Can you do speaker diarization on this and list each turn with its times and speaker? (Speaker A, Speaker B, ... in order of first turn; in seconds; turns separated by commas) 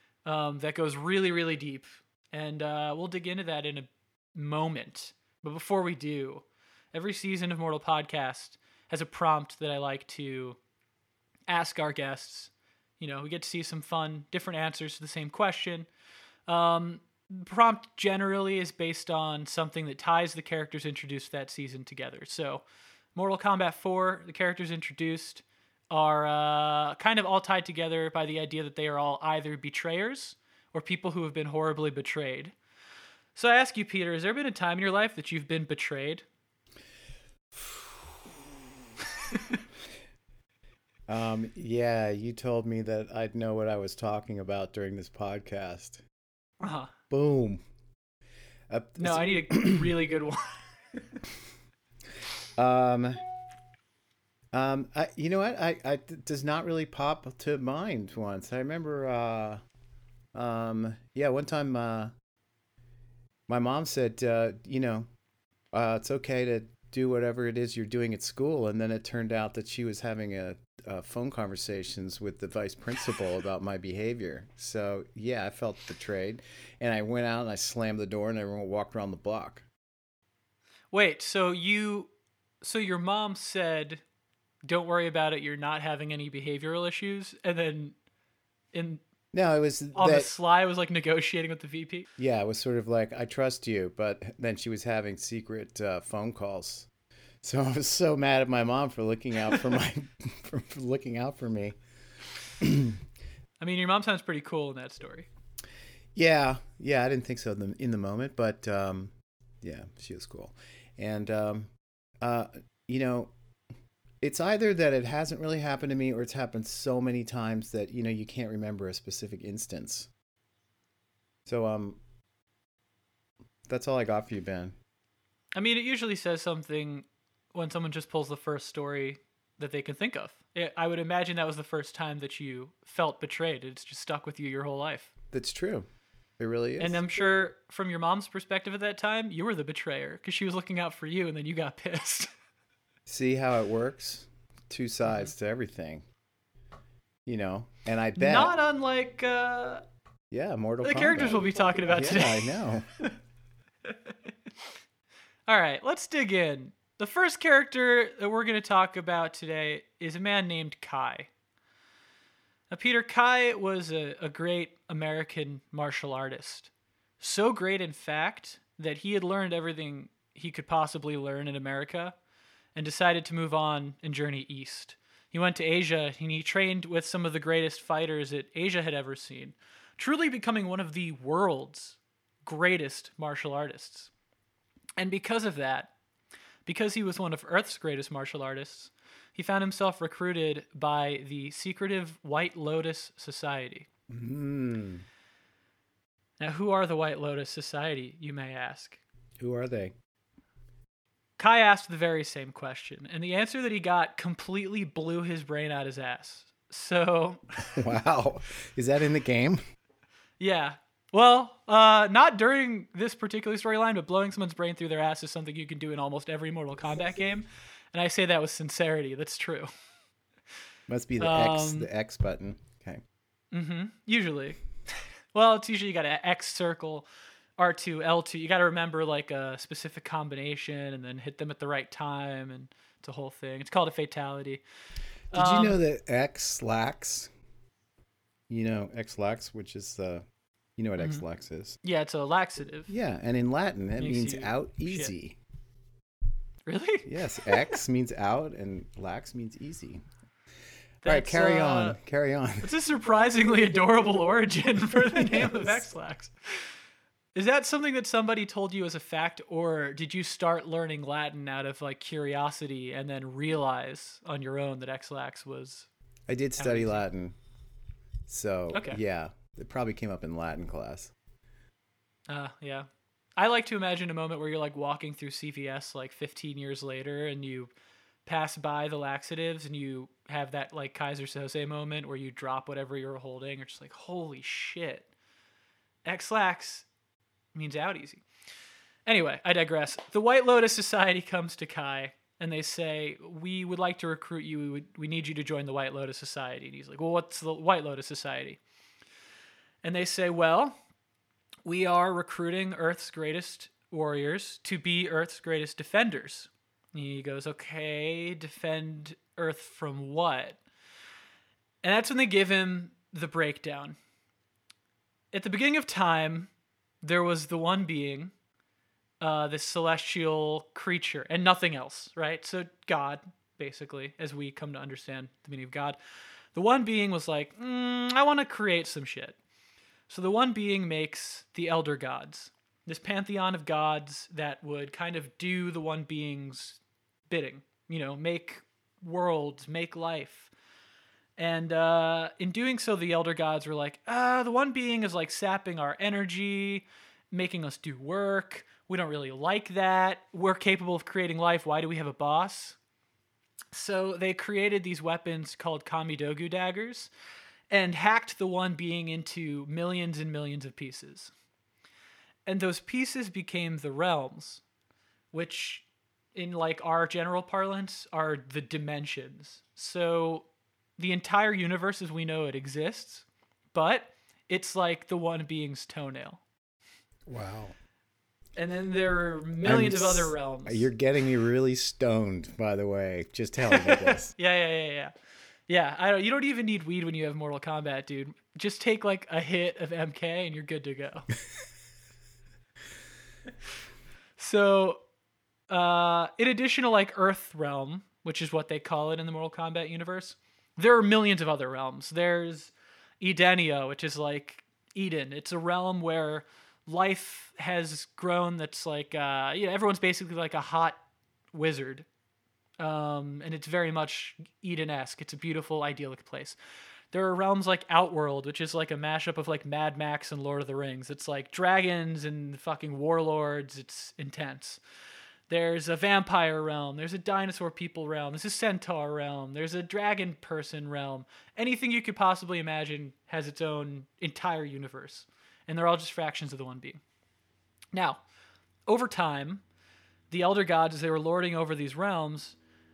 Speaker A: 0.2-10.6, Speaker A: 11.5-15.9, Speaker A: 16.5-22.6, Speaker A: 23.1-32.5, Speaker A: 33.4-36.2, Speaker B: 37.5-37.8, Speaker A: 39.2-39.6, Speaker B: 41.1-46.0, Speaker A: 46.6-46.9, Speaker B: 47.1-47.6, Speaker B: 48.7-49.9, Speaker A: 49.0-50.6, Speaker B: 52.6-53.2, Speaker B: 54.5-59.6, Speaker B: 60.3-62.1, Speaker B: 63.5-65.1, Speaker B: 65.7-79.7, Speaker A: 80.9-82.1, Speaker A: 82.6-84.0, Speaker A: 84.7-88.0, Speaker A: 88.7-89.0, Speaker B: 89.3-90.3, Speaker A: 90.0-92.1, Speaker B: 92.2-96.9, Speaker B: 97.4-101.8, Speaker B: 102.6-103.0, Speaker A: 103.6-105.3, Speaker B: 106.2-113.3, Speaker B: 114.2-120.1, Speaker B: 121.5-122.0, Speaker B: 123.7-124.8, Speaker A: 125.6-135.1, Speaker B: 135.3-135.9, Speaker B: 136.4-137.0, Speaker A: 136.8-142.3, Speaker B: 143.1-146.1, Speaker B: 147.2-148.5, Speaker A: 148.2-149.8, Speaker B: 150.3-152.9, Speaker A: 150.8-153.1, Speaker A: 153.9-154.1, Speaker A: 155.5-161.3, Speaker A: 162.7-172.2, Speaker A: 172.8-184.1, Speaker A: 185.0-185.9, Speaker A: 186.7-193.9, Speaker B: 194.1-195.1, Speaker A: 196.4-199.0, Speaker B: 199.4-199.9, Speaker A: 201.4-207.8, Speaker B: 207.8-209.6, Speaker A: 210.4-219.7, Speaker B: 220.9-223.0, Speaker A: 221.2-221.9, Speaker A: 223.5-224.6, Speaker A: 225.3-227.1, Speaker A: 227.6-234.6, Speaker A: 235.3-235.8, Speaker B: 235.3-237.3, Speaker B: 238.5-240.2, Speaker B: 240.8-241.8, Speaker A: 241.8-242.9, Speaker B: 242.9-245.4, Speaker A: 244.0-245.1, Speaker A: 246.7-247.8, Speaker B: 247.1-250.1, Speaker A: 251.0-252.0, Speaker B: 251.0-252.7, Speaker A: 252.6-256.7, Speaker B: 254.9-255.8, Speaker A: 257.4-265.9, Speaker B: 266.3-267.4, Speaker A: 266.6-267.0, Speaker B: 268.3-271.1, Speaker A: 268.7-269.0, Speaker A: 272.3-277.7, Speaker A: 278.3-285.1, Speaker A: 286.1-286.9, Speaker A: 287.5-288.2, Speaker A: 289.1-298.6, Speaker A: 299.8-300.8, Speaker A: 301.6-310.6, Speaker A: 311.8-314.0, Speaker A: 315.3-316.5, Speaker A: 317.0-318.3, Speaker A: 319.2-326.0, Speaker A: 326.5-329.4, Speaker A: 330.1-340.5, Speaker A: 341.4-352.8, Speaker A: 353.7-357.1, Speaker A: 357.7-361.3, Speaker A: 362.5-364.6, Speaker A: 365.3-376.4, Speaker B: 377.3-377.8, Speaker A: 378.6-380.9, Speaker B: 379.6-384.3, Speaker A: 383.7-385.1, Speaker A: 385.7-391.3, Speaker A: 394.4-395.0, Speaker A: 395.7-411.0, Speaker A: 411.5-412.1, Speaker A: 412.8-416.6, Speaker A: 417.1-424.8, Speaker A: 425.5-437.0, Speaker A: 437.9-438.2, Speaker A: 438.9-439.6, Speaker A: 440.3-442.6